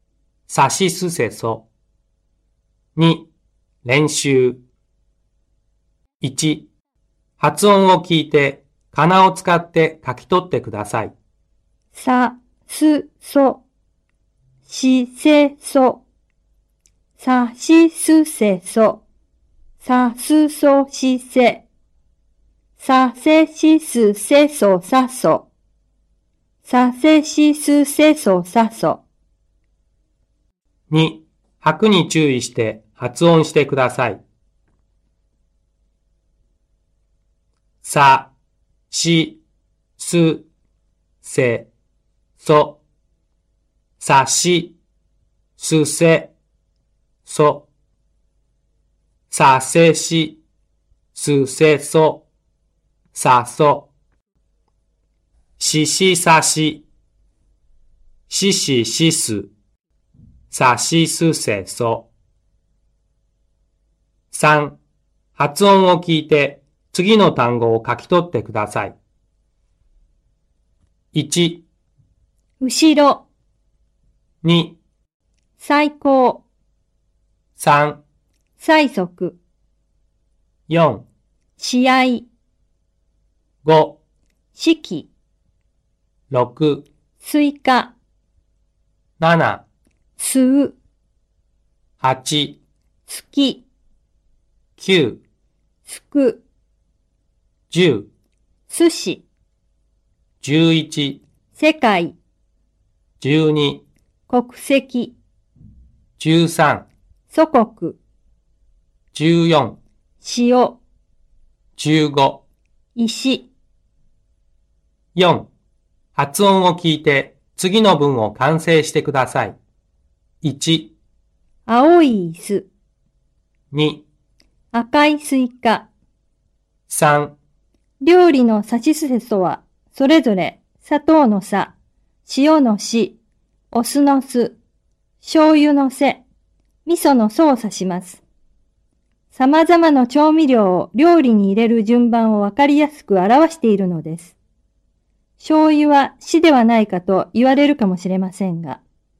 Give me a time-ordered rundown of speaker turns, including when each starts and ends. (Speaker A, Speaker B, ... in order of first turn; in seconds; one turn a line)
Speaker A: 0.5-1.7
Speaker A: 3.0-3.3
Speaker A: 3.8-4.6
Speaker A: 6.2-6.7
Speaker A: 7.4-11.1
Speaker B: 11.9-13.6
Speaker B: 14.7-16.0
Speaker B: 17.2-19.0
Speaker B: 19.8-21.7
Speaker B: 22.8-25.5
Speaker B: 26.6-29.0
Speaker A: 30.9-34.2
Speaker A: 37.8-38.3
Speaker A: 38.9-39.4
Speaker A: 40.0-40.5
Speaker A: 41.2-41.7
Speaker A: 42.4-42.8
Speaker A: 44.0-44.8
Speaker A: 45.6-46.3
Speaker A: 47.3-47.7
Speaker A: 49.3-50.4
Speaker A: 51.1-52.2
Speaker A: 53.1-53.9
Speaker A: 55.6-56.9
Speaker A: 58.3-59.5
Speaker A: 60.5-62.1
Speaker A: 64.3-64.8
Speaker A: 65.4-69.0
Speaker A: 71.1-71.7
Speaker B: 72.6-73.3
Speaker A: 74.4-74.8
Speaker B: 75.6-76.4
Speaker A: 77.6-78.0
Speaker B: 78.6-79.4
Speaker A: 80.7-81.0
Speaker B: 81.6-82.3
Speaker A: 83.6-84.0
Speaker B: 84.5-85.1
Speaker A: 86.3-86.8
Speaker B: 87.2-87.9
Speaker A: 89.2-89.7
Speaker B: 90.2-90.8
Speaker A: 92.0-92.6
Speaker B: 93.1-93.7
Speaker A: 94.8-95.2
Speaker B: 95.9-96.4
Speaker A: 97.7-98.1
Speaker B: 98.7-99.2
Speaker A: 100.4-101.2
Speaker B: 101.5-102.2
Speaker A: 103.2-103.8
Speaker B: 104.3-105.2
Speaker A: 106.2-106.9
Speaker B: 107.3-108.0
Speaker A: 109.1-109.8
Speaker B: 110.2-110.8
Speaker A: 111.8-112.4
Speaker B: 113.0-113.5
Speaker A: 115.1-115.5
Speaker A: 116.2-119.6
Speaker A: 120.4-120.9
Speaker B: 121.7-122.7
Speaker A: 123.7-124.1
Speaker B: 124.7-125.9
Speaker A: 126.9-127.4
Speaker B: 128.0-131.7
Speaker B: 132.2-133.2
Speaker B: 133.7-134.6
Speaker B: 135.2-136.2
Speaker B: 136.8-138.2
Speaker B: 139.3-144.4
Speaker B: 145.4-148.8